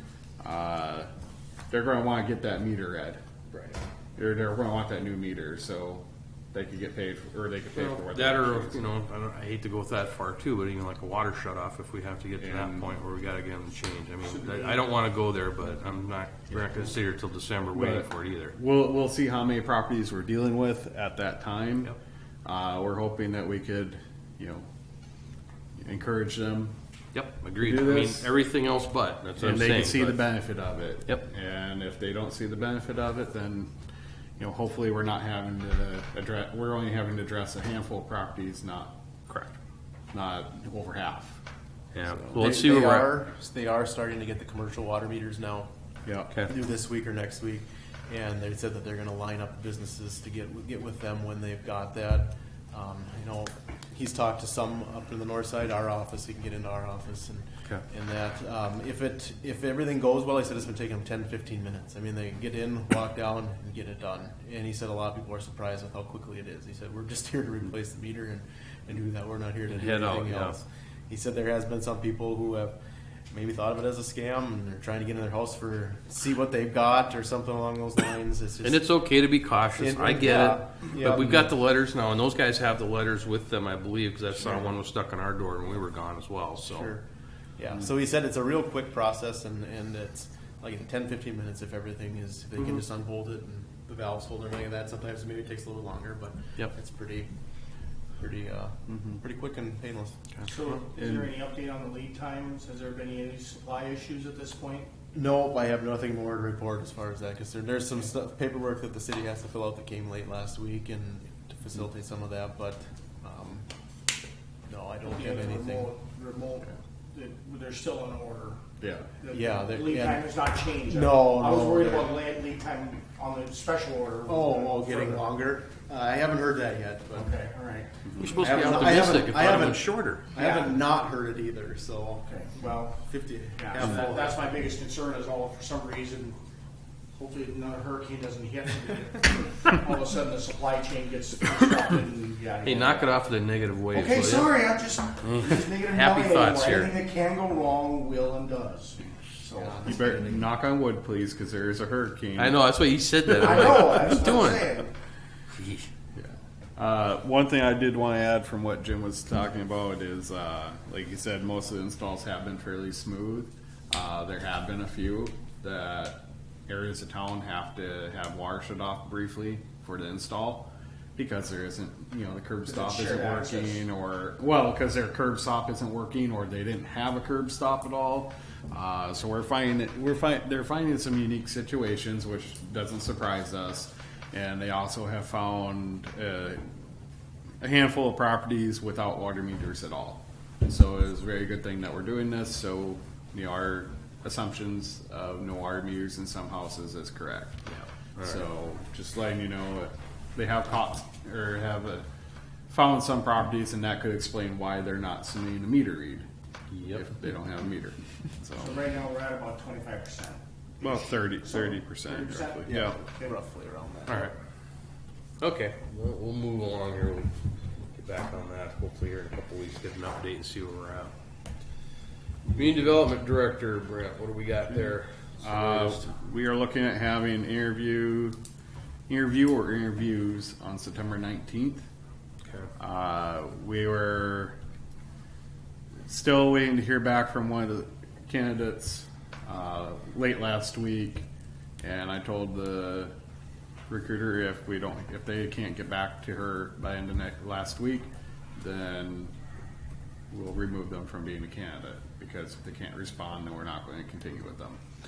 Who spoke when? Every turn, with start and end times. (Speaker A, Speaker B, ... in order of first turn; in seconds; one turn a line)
Speaker A: 0.4-1.1
Speaker A: 1.7-3.2
Speaker A: 4.2-8.9
Speaker B: 7.8-18.6
Speaker A: 12.4-12.9
Speaker C: 14.2-14.8
Speaker A: 17.7-21.9
Speaker A: 22.4-24.7
Speaker A: 25.8-26.7
Speaker B: 27.1-30.2
Speaker A: 27.6-28.3
Speaker A: 29.4-33.7
Speaker A: 34.4-39.0
Speaker B: 39.3-39.5
Speaker A: 40.1-41.4
Speaker B: 41.9-43.1
Speaker A: 42.1-42.4
Speaker D: 42.3-45.7
Speaker A: 46.1-46.3
Speaker D: 46.5-72.8
Speaker B: 69.7-70.6
Speaker D: 73.3-78.9
Speaker B: 78.6-86.9
Speaker D: 79.8-81.5
Speaker D: 86.7-87.0
Speaker D: 87.6-97.3
Speaker D: 98.2-100.2
Speaker A: 98.9-99.2
Speaker C: 100.5-104.9
Speaker A: 101.0-101.3
Speaker D: 105.1-113.7
Speaker D: 114.7-115.9
Speaker C: 115.2-118.6
Speaker A: 118.8-119.1
Speaker C: 119.2-125.3
Speaker D: 119.3-120.2
Speaker D: 120.9-122.2
Speaker D: 124.3-127.3
Speaker C: 127.2-127.9
Speaker B: 128.2-130.3
Speaker C: 128.4-129.0
Speaker D: 128.4-134.4
Speaker C: 130.4-130.8
Speaker C: 132.3-133.0
Speaker C: 133.6-136.4
Speaker C: 137.2-143.1
Speaker B: 142.6-144.5
Speaker C: 143.9-149.9
Speaker B: 145.2-146.9
Speaker D: 149.6-150.4
Speaker A: 149.8-152.7
Speaker B: 152.4-154.8
Speaker C: 153.3-154.9
Speaker B: 155.6-155.9
Speaker A: 156.2-186.6
Speaker C: 172.7-173.8
Speaker A: 187.6-197.6
Speaker B: 197.7-198.4
Speaker A: 198.2-202.1
Speaker A: 202.7-206.3
Speaker B: 206.7-207.1
Speaker A: 206.9-208.8
Speaker C: 208.6-213.4
Speaker A: 210.8-213.0
Speaker D: 212.7-214.3
Speaker B: 214.1-214.3
Speaker B: 215.4-217.3
Speaker B: 217.9-221.1
Speaker B: 222.5-226.1
Speaker A: 225.4-228.4
Speaker A: 229.1-231.9
Speaker B: 232.4-232.7
Speaker A: 232.8-234.6
Speaker A: 236.1-241.2
Speaker A: 241.8-243.1
Speaker A: 243.9-249.3
Speaker A: 250.3-254.8